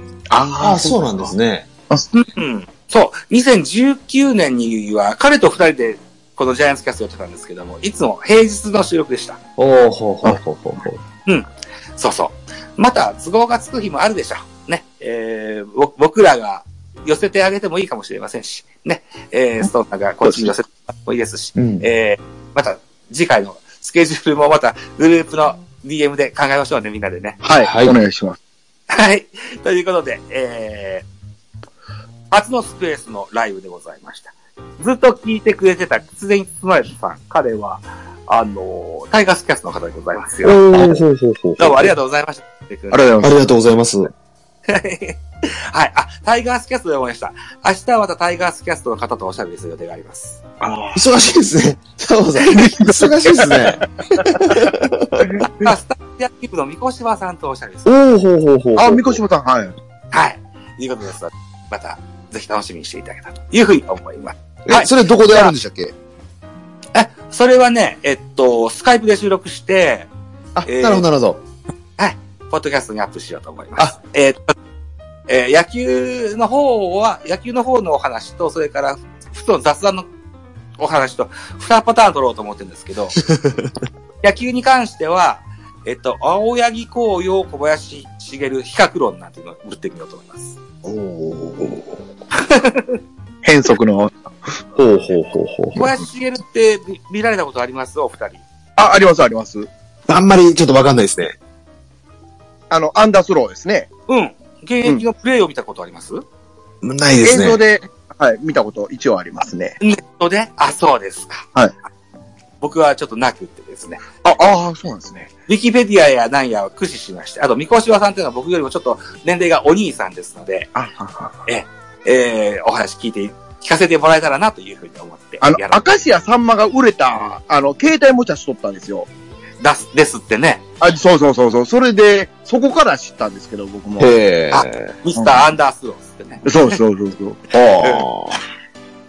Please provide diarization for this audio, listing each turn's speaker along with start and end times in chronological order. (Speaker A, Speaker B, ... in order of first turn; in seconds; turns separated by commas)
Speaker A: 0.3-1.3, Speaker B: 0.6-1.7, Speaker C: 2.1-9.4, Speaker B: 9.6-11.0, Speaker C: 11.3-27.4, Speaker A: 20.2-20.5, Speaker B: 21.6-21.9, Speaker A: 27.4-28.4, Speaker B: 27.6-28.0, Speaker C: 28.9-31.1, Speaker C: 32.3-41.0, Speaker B: 40.4-42.0, Speaker C: 41.6-43.0, Speaker A: 42.9-43.3, Speaker B: 43.2-44.1, Speaker C: 44.7-50.4, Speaker A: 50.6-51.1, Speaker B: 51.0-55.5, Speaker A: 52.5-54.4, Speaker A: 55.2-55.7, Speaker C: 55.6-57.9, Speaker B: 57.9-59.2, Speaker A: 58.8-59.8, Speaker C: 60.1-65.5, Speaker B: 64.7-65.9, Speaker C: 67.0-70.1, Speaker B: 70.5-71.4, Speaker C: 70.7-71.1, Speaker C: 72.0-74.5, Speaker C: 75.3-80.1, Speaker C: 80.8-83.2, Speaker B: 83.3-83.7, Speaker C: 84.2-90.6, Speaker A: 90.8-91.8, Speaker B: 91.2-91.6, Speaker C: 92.3-93.0, Speaker A: 93.4-94.1, Speaker B: 94.8-95.9, Speaker C: 95.7-98.4, Speaker A: 98.8-99.7, Speaker B: 100.1-101.4, Speaker A: 102.7-103.9, Speaker C: 104.1-106.2, Speaker B: 106.8-107.6, Speaker A: 107.2-109.8, Speaker C: 109.8-111.5, Speaker C: 112.6-114.0, Speaker A: 114.2-115.3, Speaker C: 115.5-120.7, Speaker A: 120.8-121.4, Speaker C: 121.5-125.8, Speaker A: 125.4-129.1, Speaker C: 129.6-130.6, Speaker A: 130.8-134.1, Speaker B: 134.0-134.9, Speaker C: 134.5-136.8, Speaker A: 136.4-137.5, Speaker B: 137.5-138.4, Speaker C: 137.8-138.1